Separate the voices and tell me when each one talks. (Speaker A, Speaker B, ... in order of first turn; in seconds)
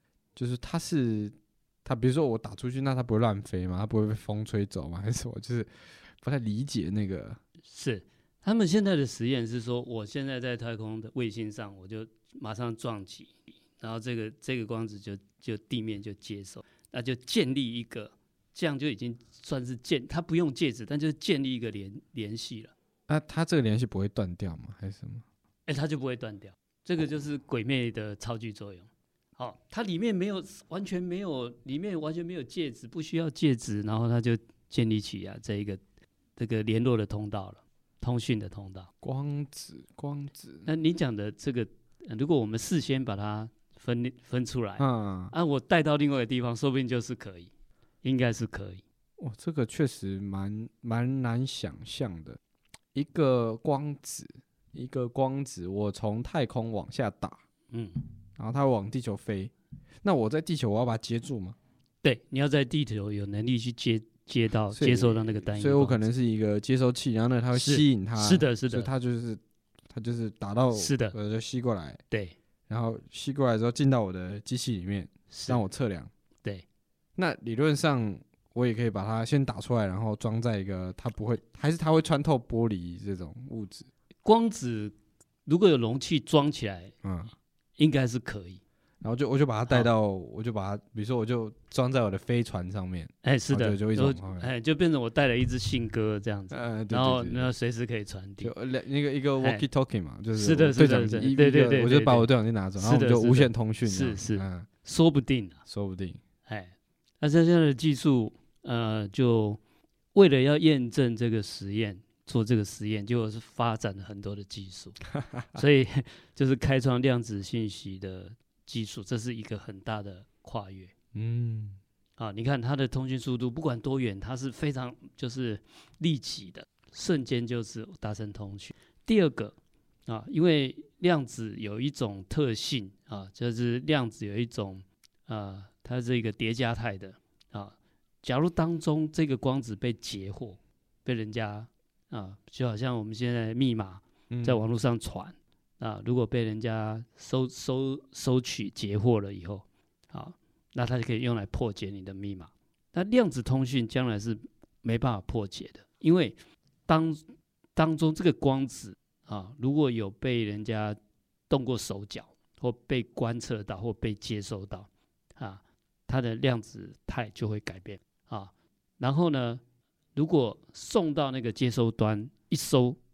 Speaker A: 0.3-7.4, 23.1-25.2, 39.0-40.7, 44.8-45.3, 49.2-52.4, 52.9-57.4, 58.4-59.5, 60.0-61.5, 64.7-72.0, 72.7-76.1, 77.2-83.9, 87.0-87.3, 89.0-94.5, 96.5-97.5, 98.4-104.7, 105.7-106.2, 115.2-115.6, 121.1-121.8, 144.3-144.6
Speaker B: 7.7-22.7, 25.7-35.8, 36.4-38.9, 40.6-47.5, 48.0-48.8, 57.7-58.0, 62.0-66.0, 67.5-68.9, 70.7-71.1, 72.1-72.3, 75.3-75.6, 84.2-84.9, 85.5-86.9, 87.8-88.6, 93.2-98.5, 100.3-105.6, 106.5-109.6, 110.1-115.0, 115.5-120.9, 122.2-129.5, 130.1-156.4, 156.9-157.2, 157.7-161.0, 161.5-169.6, 170.1-173.0